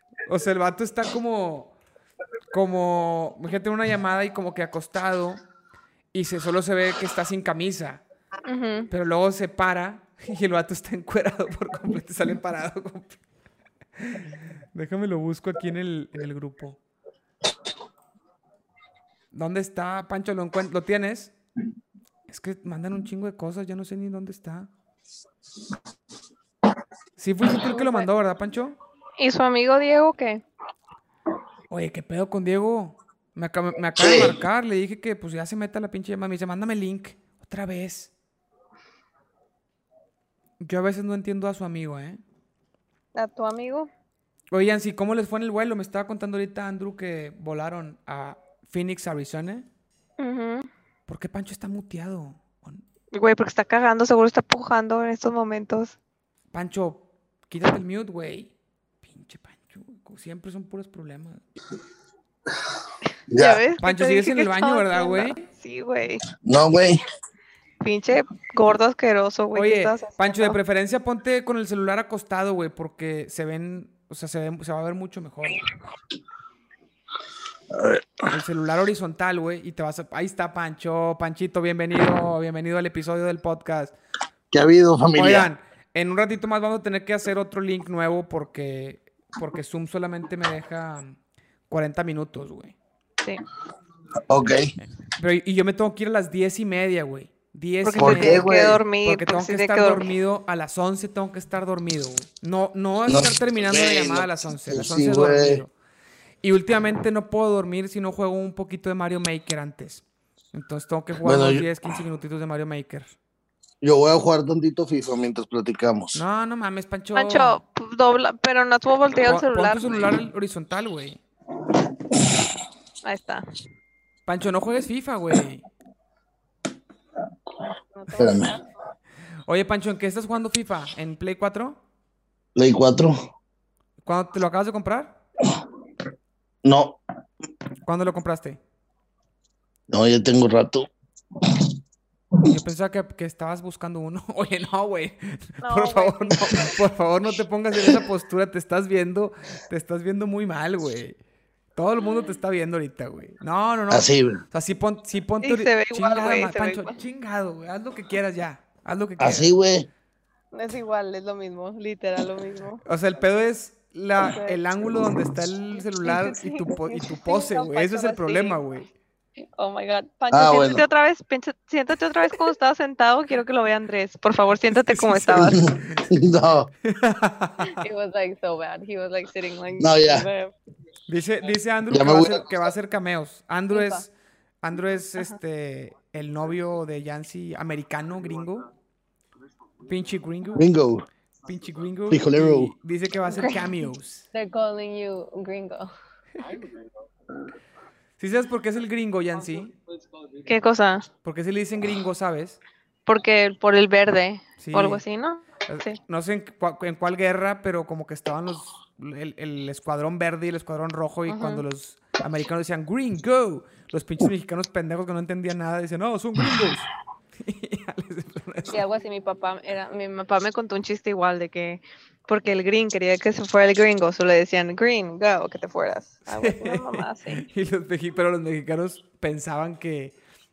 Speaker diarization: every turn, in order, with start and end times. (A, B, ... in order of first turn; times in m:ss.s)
0:00.2-0:01.7 A
0:02.5-0:05.4 A
0:06.1-0:08.0 A
0:08.4-0:08.9 B
0:08.9-0:13.2 A
0:14.0-0:16.8 A
0:19.3-0:21.3 A
0:22.3-0:24.7 A
0:27.2-0:28.8 A
0:27.6-0:28.1 B
0:29.2-0:30.4 B
0:31.7-0:38.1 A
0:34.0-0:34.4 C
0:40.6-0:42.2 A
0:43.1-0:43.9 B
0:44.5-0:49.6 A
0:50.2-0:50.7 B
0:51.1-0:52.8 A
0:53.1-0:56.0 B
0:56.5-0:58.5 A
0:59.0-1:01.4 A
1:03.3-1:03.6 C
1:03.4-1:06.2 B
1:03.8-1:05.4 A
1:06.4-1:07.0 C
1:07.8-1:10.6 B
1:09.5-1:15.6 A
1:17.7-1:18.2 C
1:18.3-1:23.9 A
1:24.5-1:25.5 C
1:25.1-1:31.2 A
1:31.7-1:32.8 A
1:34.3-1:34.7 C
1:35.2-1:38.5 A
1:37.8-1:40.0 B
1:38.0-1:38.8 C
1:39.0-1:45.7 A
1:43.1-1:45.6 C
1:46.4-1:53.1 A
1:51.2-1:51.6 C
1:53.8-1:56.2 C
1:56.1-1:57.6 A
1:57.1-2:00.0 B
1:59.2-2:01.2 A
2:03.0-2:03.5 B
2:04.2-2:05.6 A
2:07.9-2:08.6 B
2:08.1-2:08.5 C
2:09.5-2:11.8 A
2:12.6-2:13.2 C
2:14.0-2:15.2 A
2:16.6-2:17.0 C
2:17.8-2:18.6 A
2:19.9-2:20.9 C
2:21.4-2:21.7 C
2:22.5-2:31.2 A
2:25.6-2:26.8 B
2:31.7-2:39.5 A
2:33.9-2:34.4 C
2:35.4-2:37.0 B
2:39.2-2:39.9 C
2:40.5-2:42.8 B
2:42.8-2:48.9 A
2:44.2-2:44.6 B
2:46.0-2:48.6 B
2:49.4-2:55.7 B
2:50.3-2:50.8 C
2:54.8-2:56.1 A
2:56.1-2:56.7 C
2:56.8-2:57.8 A
2:57.6-3:00.5 B
2:59.8-3:00.3 C
3:01.1-3:08.6 A
3:01.9-3:02.4 C
3:03.7-3:04.0 B
3:09.8-3:10.7 A
3:10.6-3:11.1 C
3:11.4-3:14.3 A
3:12.1-3:12.7 C
3:13.2-3:13.6 B
3:14.3-3:15.9 B
3:18.2-3:19.7 A
3:20.4-3:21.1 B
3:21.2-3:22.6 A
3:23.0-3:26.0 B
3:24.6-3:25.0 A
3:25.6-3:36.9 A
3:31.3-3:31.6 B
3:37.4-3:38.8 A
3:38.7-3:47.4 B
3:46.3-3:50.1 A